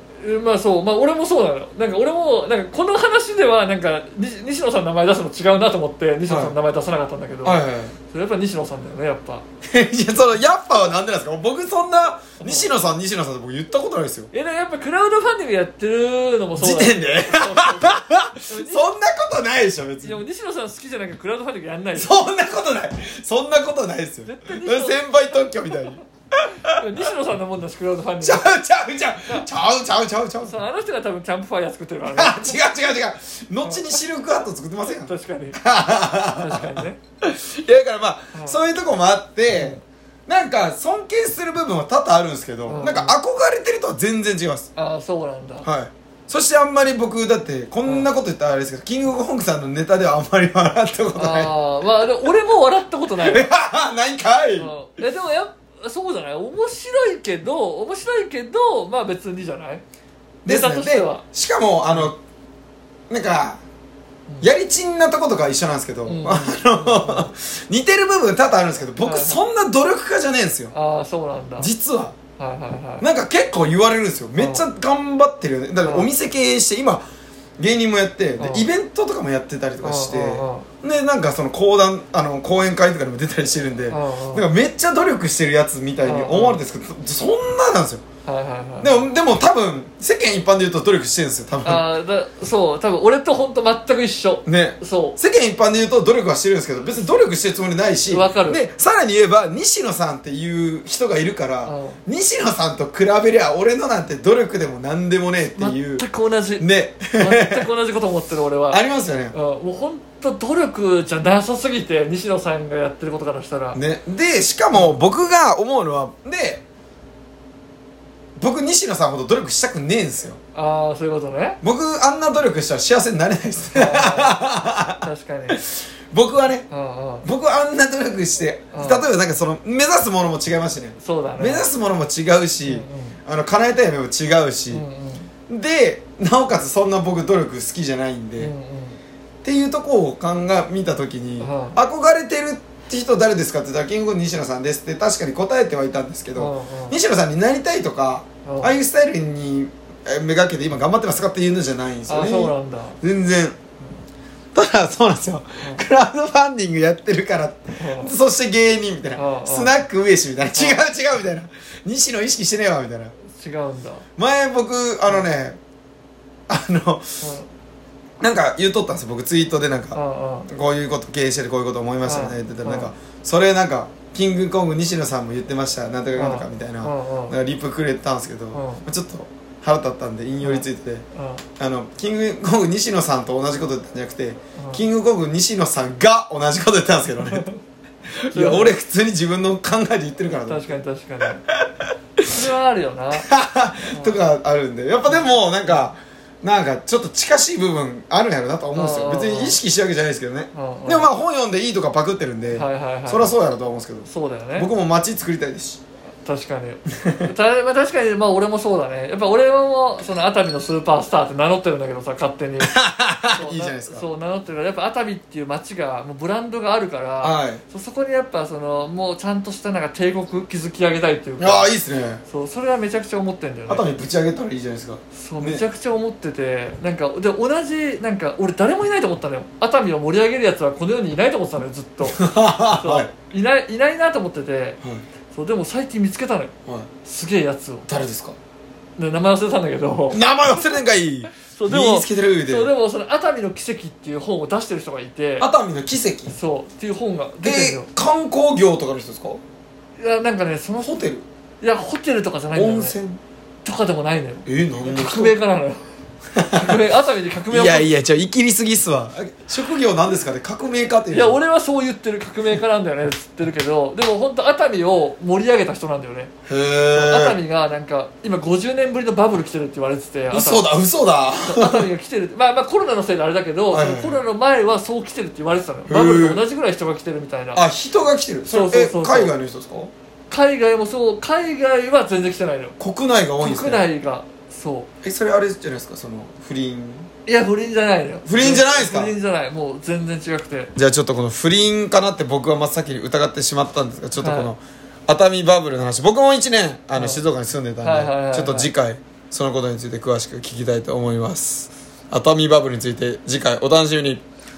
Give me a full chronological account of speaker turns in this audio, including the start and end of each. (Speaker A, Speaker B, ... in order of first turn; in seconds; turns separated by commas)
Speaker A: 0.2-9.4, Speaker B: 6.3-6.6, Speaker B: 7.4-7.9, Speaker B: 9.7-14.3, Speaker A: 12.4-12.7, Speaker A: 14.3-18.9, Speaker B: 16.6-20.2, Speaker A: 20.0-22.3, Speaker B: 21.9-26.8, Speaker A: 24.2-25.9, Speaker A: 26.5-28.5, Speaker B: 28.2-30.6, Speaker A: 30.4-32.6, Speaker B: 32.1-44.7, Speaker A: 33.6-34.0, Speaker A: 34.8-35.6, Speaker A: 36.2-37.0, Speaker A: 38.3-38.6, Speaker A: 39.5-39.8, Speaker A: 42.7-43.1, Speaker A: 44.8-45.6, Speaker B: 45.6-51.5, Speaker A: 51.1-53.5, Speaker B: 53.2-54.7, Speaker A: 54.6-59.8, Speaker B: 60.4-62.2, Speaker A: 60.5-61.2, Speaker B: 63.1-63.6, Speaker B: 64.4-70.7, Speaker A: 66.1-67.3, Speaker A: 69.0-69.4, Speaker A: 70.7-71.7, Speaker B: 71.6-72.2, Speaker A: 72.4-73.1, Speaker B: 73.0-77.0, Speaker A: 74.4-74.6, Speaker A: 75.8-76.1, Speaker B: 77.6-88.0, Speaker A: 78.4-78.7, Speaker A: 79.8-80.7, Speaker A: 83.9-84.4, Speaker A: 86.0-86.6, Speaker A: 88.2-89.1, Speaker B: 88.8-91.9, Speaker A: 91.6-95.2, Speaker B: 94.5-106.0, Speaker A: 98.1-98.6, Speaker A: 101.6-102.0, Speaker A: 105.5-113.8, Speaker B: 106.6-107.7, Speaker B: 108.7-109.3, Speaker B: 113.8-116.6, Speaker B: 118.4-120.4, Speaker A: 120.5-121.6, Speaker B: 121.6-126.7, Speaker A: 123.7-124.4, Speaker A: 125.0-125.6, Speaker A: 126.7-127.2, Speaker B: 127.2-134.8, Speaker A: 128.7-129.1, Speaker A: 131.0-131.7, Speaker A: 132.7-133.2, Speaker A: 134.7-135.3, Speaker B: 135.5-138.5, Speaker A: 138.4-139.0, Speaker B: 139.4-153.6, Speaker A: 141.4-141.8, Speaker A: 146.4-147.0, Speaker A: 148.4-148.7, Speaker A: 152.1-153.0, Speaker B: 154.5-163.1, Speaker A: 157.8-158.1, Speaker A: 159.2-159.8, Speaker A: 160.5-160.8, Speaker A: 163.3-164.1, Speaker B: 164.2-165.6, Speaker B: 166.5-167.3, Speaker A: 167.2-167.5, Speaker B: 168.2-181.0, Speaker A: 169.9-170.5, Speaker A: 172.0-172.9, Speaker A: 176.2-177.4, Speaker A: 178.5-178.8, Speaker A: 180.4-181.4, Speaker B: 181.6-187.5, Speaker A: 184.6-184.8, Speaker A: 187.3-187.6, Speaker B: 188.1-190.8, Speaker A: 188.3-188.7, Speaker A: 190.5-191.4, Speaker B: 191.5-192.2, Speaker A: 192.2-193.3, Speaker B: 193.1-205.8, Speaker A: 193.9-194.2, Speaker A: 195.1-195.8, Speaker A: 198.8-199.6, Speaker A: 200.5-201.1, Speaker A: 202.5-203.3, Speaker A: 204.1-204.7, Speaker A: 206.2-212.8, Speaker B: 207.0-207.3, Speaker B: 212.6-214.0, Speaker A: 213.3-221.7, Speaker B: 217.2-217.6, Speaker B: 221.4-222.2, Speaker A: 222.2-223.8, Speaker B: 223.7-225.6, Speaker A: 225.1-232.2, Speaker B: 232.0-233.1, Speaker A: 232.7-236.5, Speaker A: 237.0-238.0, Speaker B: 237.9-238.4, Speaker A: 239.0-240.8, Speaker B: 240.1-242.7, Speaker A: 241.4-245.5, Speaker B: 245.4-246.4, Speaker A: 246.3-247.9, Speaker B: 247.4-249.4, Speaker A: 250.0-251.1, Speaker B: 250.8-251.2, Speaker A: 251.6-253.0, Speaker B: 252.5-253.2, Speaker A: 253.6-255.8, Speaker B: 254.5-255.3, Speaker B: 256.4-256.8, Speaker A: 256.4-257.9, Speaker B: 257.5-261.4, Speaker A: 261.1-266.3, Speaker B: 266.5-267.4, Speaker A: 266.9-270.6, Speaker B: 270.3-271.9, Speaker A: 271.4-277.6, Speaker B: 273.7-274.2, Speaker B: 275.9-276.4, Speaker B: 277.5-279.9, Speaker A: 278.5-279.3, Speaker A: 280.3-282.8, Speaker B: 282.8-283.9, Speaker A: 283.4-284.9, Speaker B: 285.0-287.1, Speaker A: 287.2-290.7, Speaker B: 288.2-289.1, Speaker B: 290.8-304.2, Speaker A: 294.2-294.5, Speaker A: 296.9-297.2, Speaker A: 297.8-298.7